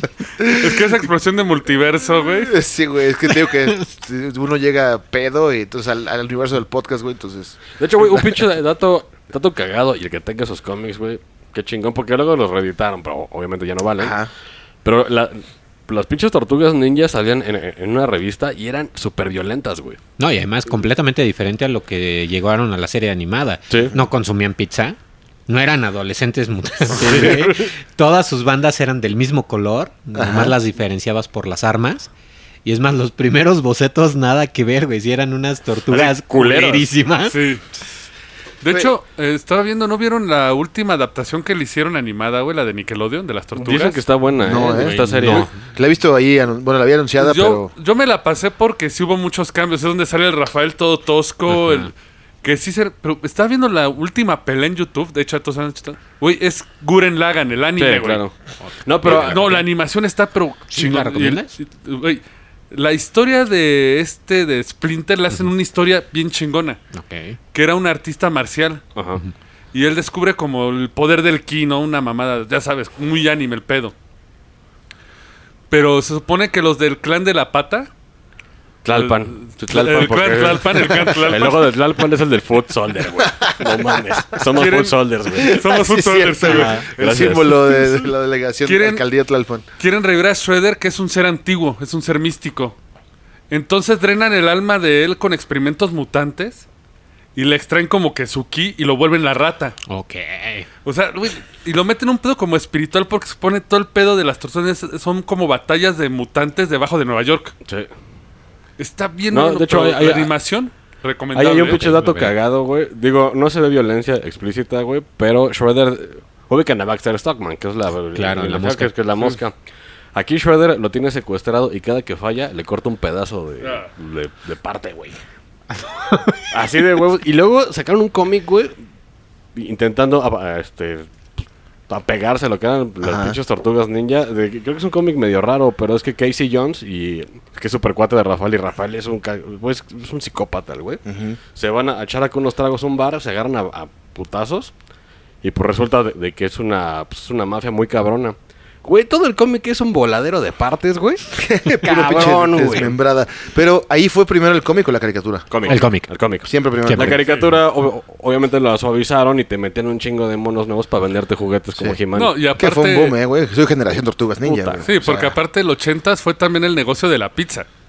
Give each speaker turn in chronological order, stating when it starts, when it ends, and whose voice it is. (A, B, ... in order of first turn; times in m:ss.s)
0:00.4-0:00.8 A
0:00.4-0:02.6 B
0:02.4-0:08.4 A
0:07.8-0:14.2 C
0:14.0-0:14.3 A
0:14.8-0:20.0 C
0:20.2-0:25.0 D
0:23.7-0:24.0 C
0:25.5-0:32.1 D
0:27.0-0:27.7 C
0:27.0-0:27.4 A
0:30.1-0:30.6 A
0:32.6-0:37.4 D
0:35.9-0:36.9 C
0:37.3-0:37.6 B
0:38.6-0:44.0 B
0:43.6-0:45.5 C
0:44.4-0:47.7 A
0:44.6-0:45.5 D
0:47.2-0:51.9 B
0:51.5-0:51.9 D
0:52.4-0:58.2 B
0:57.8-0:58.3 C
0:58.6-0:59.4 D
0:58.8-0:59.6 C
0:59.0-1:06.8 B
1:00.7-1:01.6 D
1:06.9-1:07.4 D
1:07.5-1:08.8 B
1:09.0-1:09.2 C
1:09.7-1:13.9 B
1:15.7-1:17.9 B
1:18.8-1:25.6 C
1:18.9-1:21.7 B
1:23.2-1:24.4 A
1:24.4-1:26.8 B
1:25.3-1:29.6 A
1:26.4-1:26.8 D
1:26.9-1:28.1 C
1:28.6-1:29.0 B
1:29.8-1:32.8 B
1:33.5-1:36.6 B
1:37.3-1:39.8 B
1:39.9-1:40.7 D
1:40.8-1:47.5 B
1:47.6-1:47.9 C
1:48.8-1:51.9 B
1:49.3-1:50.3 C
1:51.3-1:59.6 C
1:51.7-1:52.3 D
1:58.1-1:58.9 D
2:00.1-2:05.2 C
2:03.6-2:03.9 B
2:05.8-2:06.5 D
2:06.5-2:08.8 C
2:09.6-2:21.0 C
2:13.0-2:13.4 A
2:21.0-2:21.4 A
2:21.5-2:24.7 C
2:25.4-2:31.3 C
2:31.3-2:35.8 A
2:31.8-2:32.9 C
2:31.8-2:32.9 D
2:35.5-2:42.3 C
2:35.7-2:36.1 D
2:36.4-2:37.2 A
2:36.8-2:37.2 D
2:41.7-2:42.0 A
2:42.1-2:43.2 B
2:42.6-2:45.4 A
2:44.4-2:44.9 C
2:44.8-2:47.6 B